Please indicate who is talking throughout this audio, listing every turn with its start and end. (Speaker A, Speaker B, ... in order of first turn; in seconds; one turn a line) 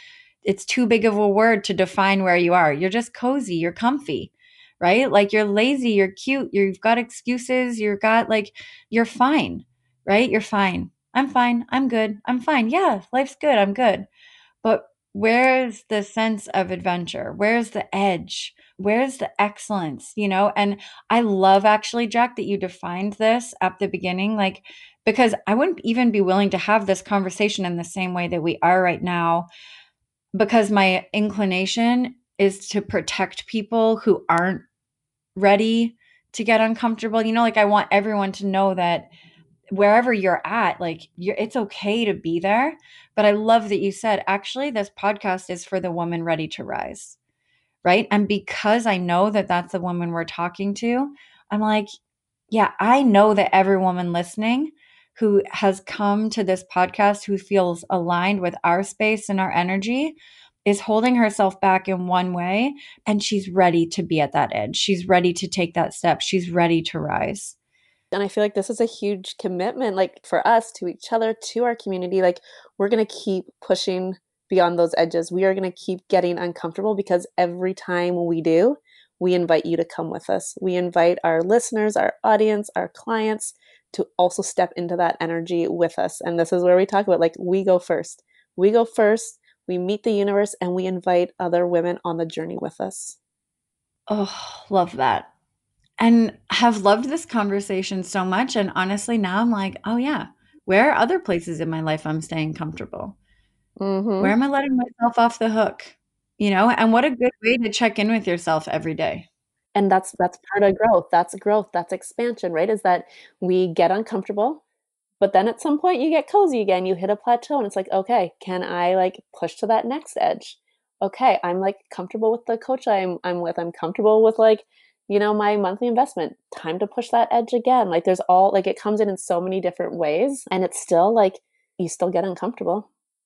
Speaker A: 0.4-14.1
Speaker A: 14.6-29.5
Speaker A: 30.3-34.7
Speaker A: 35.4-39.1
Speaker A: 39.7-47.2
Speaker A: 47.8-51.9
Speaker A: 52.5-67.6
Speaker B: 68.1-93.2
Speaker A: 94.1-95.3
Speaker A: 96.0-103.2
Speaker B: 103.8-104.3
Speaker A: 104.2-109.3
Speaker B: 109.8-114.6
Speaker B: 115.2-132.9